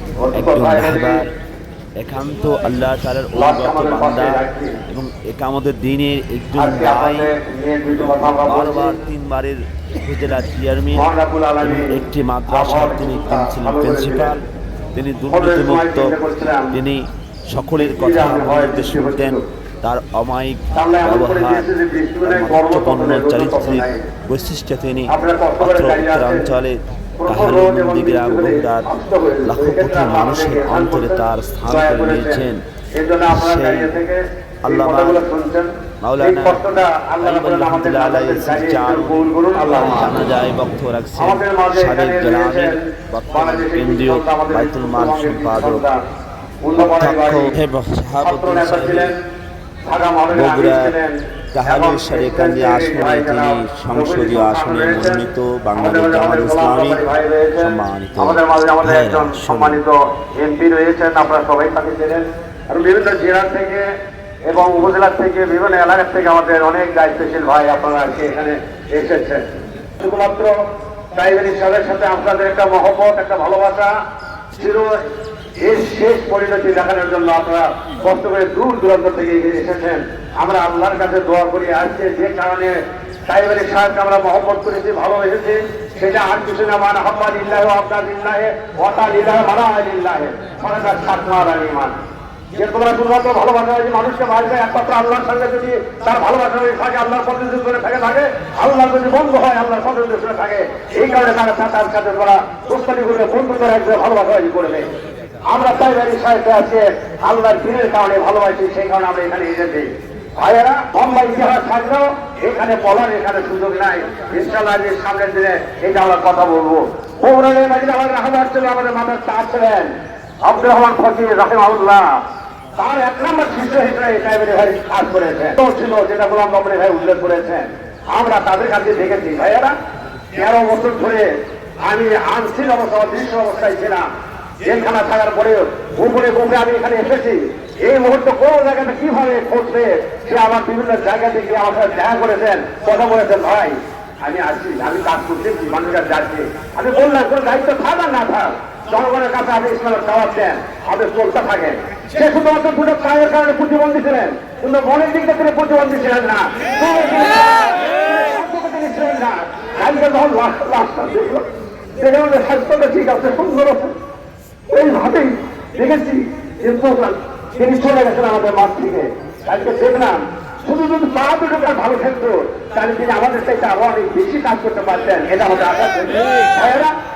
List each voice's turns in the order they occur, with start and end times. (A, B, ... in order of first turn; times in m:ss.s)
0:00.2-0:01.2 A
0:00.3-0:01.3 B
0:02.0-0:07.3 B
0:03.4-0:04.8 A
0:06.6-0:09.0 A
0:08.2-0:11.0 B
0:10.9-0:14.3 A
0:11.6-0:14.4 B
0:14.9-0:16.2 B
0:15.3-0:16.8 A
0:16.7-0:21.7 B
0:17.8-0:19.4 A
0:20.7-0:24.1 A
0:22.2-0:28.9 B
0:25.1-0:26.5 A
0:27.2-0:35.7 A
0:29.5-0:32.6 B
0:33.3-0:33.9 B
0:34.7-0:35.2 B
0:36.0-0:36.6 B
0:36.2-0:40.2 A
0:37.2-0:45.9 B
0:41.2-0:46.0 A
0:46.6-0:47.5 A
0:46.8-0:49.2 B
0:48.2-0:49.2 A
0:49.9-1:03.9 A
0:50.3-0:50.9 B
0:51.5-0:57.0 B
0:57.6-0:59.8 B
1:04.5-1:09.4 A
1:10.0-1:10.6 A
1:11.1-1:13.9 A
1:14.6-1:14.9 A
1:15.6-1:22.8 A
1:23.3-1:32.0 A
1:32.6-1:44.9 A
1:45.5-1:59.9 A
2:00.4-2:02.2 A
2:02.8-2:09.8 A
2:10.3-2:11.3 A
2:11.8-2:14.1 A
2:14.6-2:41.5 A
2:42.0-2:43.9 A
2:44.7-2:56.9 A